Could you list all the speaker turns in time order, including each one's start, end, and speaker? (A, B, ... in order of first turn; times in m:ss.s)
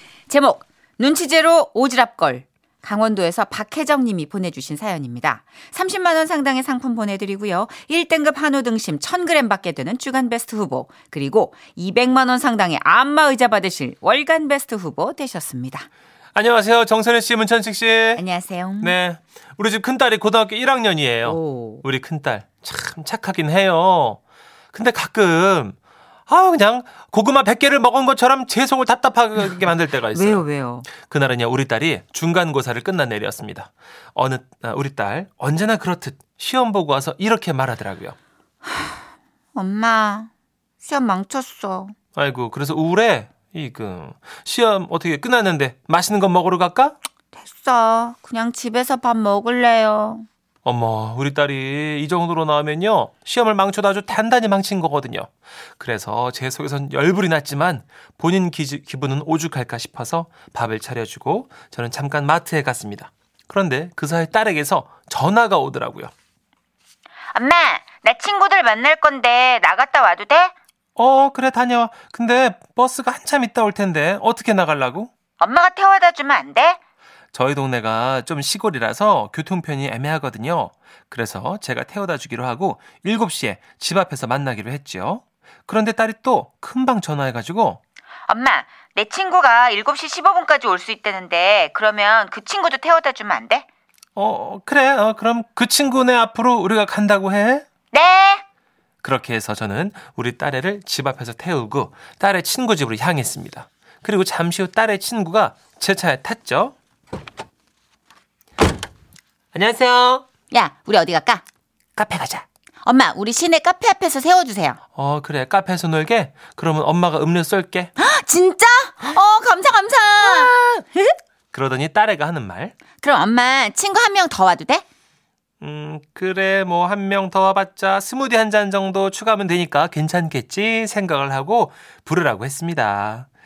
0:00.3-0:15.9 A
0:16.3-0:18.2 B
0:18.2-0:19.0 A
0:18.8-0:24.2 B
0:21.2-0:21.8 A
0:24.7-0:25.8 B
0:26.3-0:38.2 B
0:30.1-0:30.9 A
0:38.6-0:39.0 A
0:39.6-0:40.3 A
0:40.8-0:41.9 A
0:42.2-0:47.0 B
0:47.3-0:50.3 A
0:50.6-1:06.1 B
1:07.3-1:10.5 A
1:11.0-1:15.1 B
1:15.4-1:16.8 A
1:17.3-1:27.8 B
1:28.3-1:33.7 A
1:34.2-1:37.7 B
1:37.9-1:38.4 A
1:39.0-1:46.8 B
1:49.5-1:50.2 B
1:50.5-1:51.4 A
1:52.0-1:52.4 B
1:52.8-1:54.8 A
1:55.0-1:57.9 B
1:58.0-2:01.1 A
2:00.2-2:00.8 B
2:01.5-2:02.8 B
2:03.0-2:04.8 A
2:05.6-2:13.3 B